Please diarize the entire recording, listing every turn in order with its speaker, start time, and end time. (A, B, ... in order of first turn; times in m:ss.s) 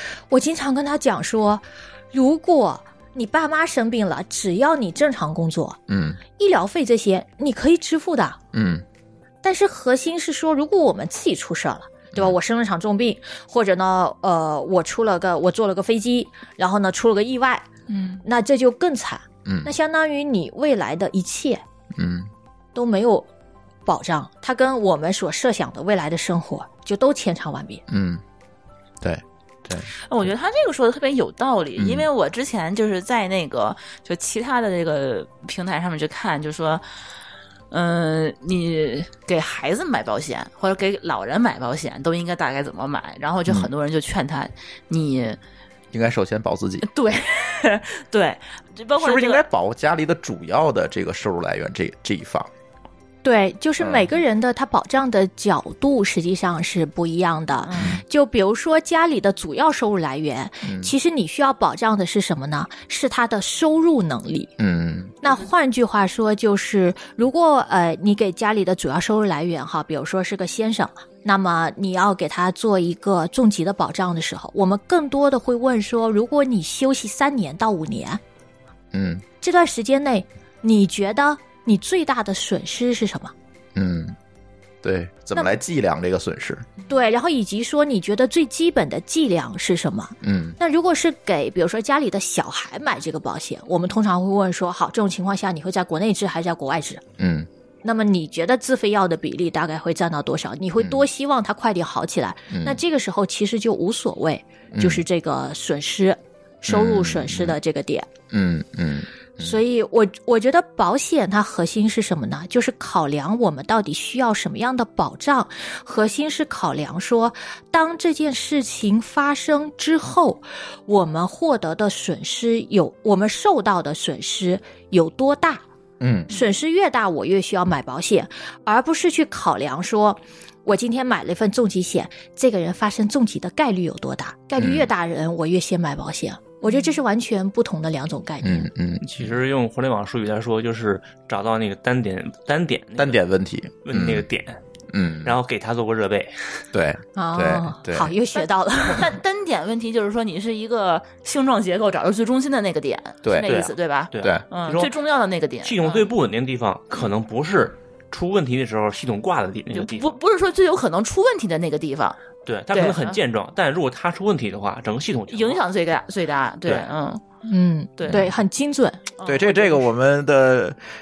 0:00.3-0:08.4 A
0:05.9-0:06.2 B
0:08.5-0:08.8 B
0:09.4-0:17.7 A
0:18.2-0:21.6 A
0:19.4-0:19.7 B
0:22.0-0:22.3 B
0:22.8-0:23.3 A
0:23.9-0:27.8 A
0:27.9-0:28.2 B
0:29.0-0:29.9 B
0:30.0-0:36.8 C
0:31.8-0:32.1 B
0:37.7-0:45.4 C
0:45.9-0:46.8 B
0:46.8-0:49.4 C
0:49.0-0:52.5 B
0:53.2-1:04.5 A
0:53.8-0:54.1 B
0:57.8-0:58.0 B
1:00.6-1:00.9 B
1:04.6-1:05.2 B
1:05.2-1:18.2 A
1:18.9-1:19.2 B
1:19.4-1:23.3 A
1:23.8-1:24.2 B
1:24.8-1:26.7 B
1:26.9-1:37.0 A
1:30.2-1:30.6 B
1:37.2-1:37.5 B
1:37.8-1:48.1 A
1:40.8-1:41.0 B
1:42.5-1:42.8 B
1:44.7-1:45.0 B
1:46.7-1:47.6 B
1:48.3-1:49.6 B
1:49.4-2:05.6 A
2:06.0-2:06.3 B
2:06.3-2:18.7 A
2:14.6-2:14.9 B
2:16.7-2:16.9 C
2:18.4-2:19.3 B
2:19.0-2:23.2 D
2:23.0-2:24.3 B
2:23.8-2:24.6 D
2:24.9-2:25.4 B
2:25.2-2:26.6 D
2:26.7-2:28.1 B
2:27.2-2:29.1 A
2:28.4-2:36.1 C
2:33.2-2:33.5 B
2:33.4-2:34.9 D
2:35.6-2:40.2 D
2:39.7-2:42.2 C
2:42.5-2:45.6 D
2:42.7-2:43.2 C
2:45.3-2:47.2 C
2:47.5-2:49.1 A
2:48.0-2:48.3 C
2:49.2-2:49.8 C
2:49.3-2:50.8 B